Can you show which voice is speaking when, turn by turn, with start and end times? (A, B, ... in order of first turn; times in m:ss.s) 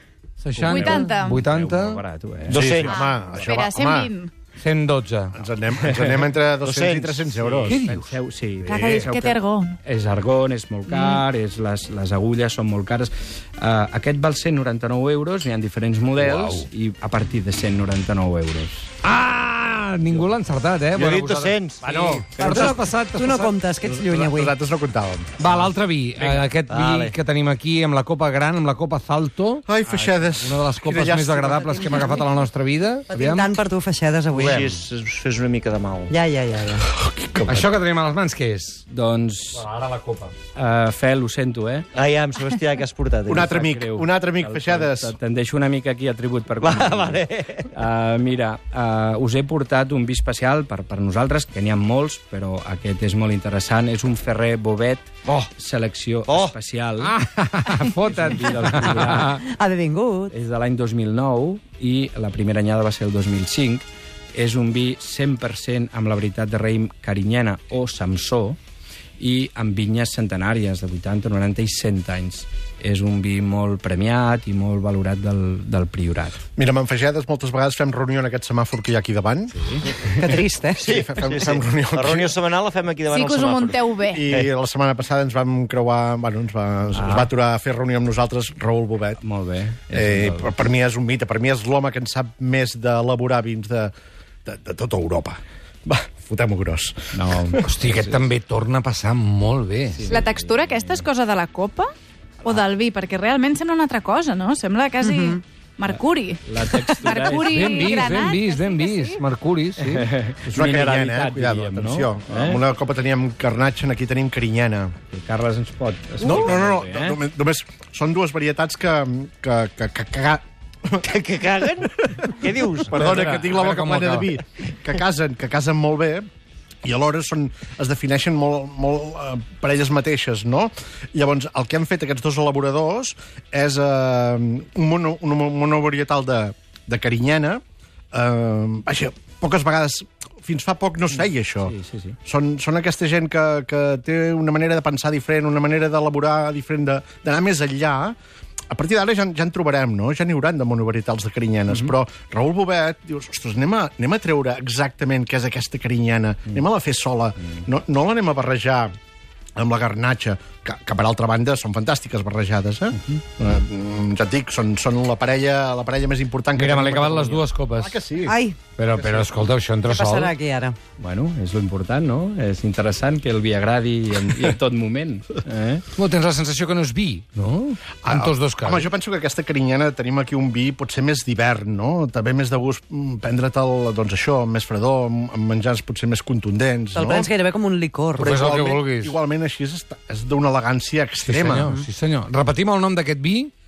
0:00.4-0:02.0 A
0:00.5-0:02.9 B
0:00.7-0:01.4 C
0:02.5-0:03.0 D
0:02.5-0:04.1 E
0:02.8-0:04.3 C
0:04.6-0:05.3 A
0:05.4-0:07.8 E
0:05.9-0:06.2 B
0:06.6-0:07.4 D
0:07.5-0:18.9 B
0:07.7-0:08.2 A
0:08.6-0:09.8 C
0:08.7-0:09.1 A
0:10.9-0:11.2 C
0:16.2-0:16.7 A
0:19.0-0:23.6 A
0:20.9-0:21.9 D
0:22.4-0:24.6 F
0:23.8-0:25.3 E
0:25.4-0:33.5 A
0:26.2-0:27.1 D
0:29.7-0:31.8 E
0:31.6-0:32.3 F
0:33.1-0:34.7 F
0:34.3-0:36.1 D
0:36.1-0:36.9 F
0:37.0-0:37.7 E
0:37.5-0:38.8 A
0:38.9-0:39.7 B
0:39.6-0:40.3 A
0:40.6-0:41.9 B
0:42.0-0:43.5 D
0:43.3-0:45.2 E
0:43.3-0:57.1 B
0:46.6-0:47.7 D
0:56.3-0:56.5 D
0:57.0-0:59.4 A
0:58.0-0:59.4 B
0:59.4-1:00.3 F
1:00.3-1:08.6 B
1:09.2-1:16.4 B
1:16.6-1:19.6 E
1:19.6-1:19.9 B
1:20.2-1:20.9 F
1:20.8-1:22.4 E
1:20.8-1:24.5 D
1:23.1-1:24.3 C
1:24.1-1:29.2 E
1:27.0-1:27.3 B
1:29.2-1:30.6 B
1:29.9-1:33.9 E
1:34.5-1:37.7 E
1:37.1-1:38.3 B
1:37.7-1:40.0 A
1:39.9-1:41.1 B
1:40.0-1:41.9 C
1:42.4-1:49.2 C
1:45.0-1:45.4 F
1:45.9-1:48.4 B
1:47.5-1:50.1 A
1:49.8-1:52.6 B
1:50.5-1:54.9 E
1:55.1-1:57.2 B
1:56.2-2:01.0 E
2:01.1-2:03.5 D
2:02.9-2:06.3 E
2:03.0-2:04.3 A
2:06.8-2:17.6 E
2:18.1-2:21.7 E
2:21.6-2:22.2 B
2:22.2-2:28.2 E
2:28.7-2:38.9 E
2:39.6-2:48.4 E
2:46.6-2:48.0 A
2:48.2-2:48.6 F
2:48.8-2:50.4 A
2:49.9-2:50.8 F
2:51.0-2:55.8 B
2:56.0-2:58.9 A
2:58.0-3:07.3 E
3:06.9-3:08.4 F
3:08.2-3:09.2 A
3:08.2-3:11.8 E
3:11.3-3:13.5 A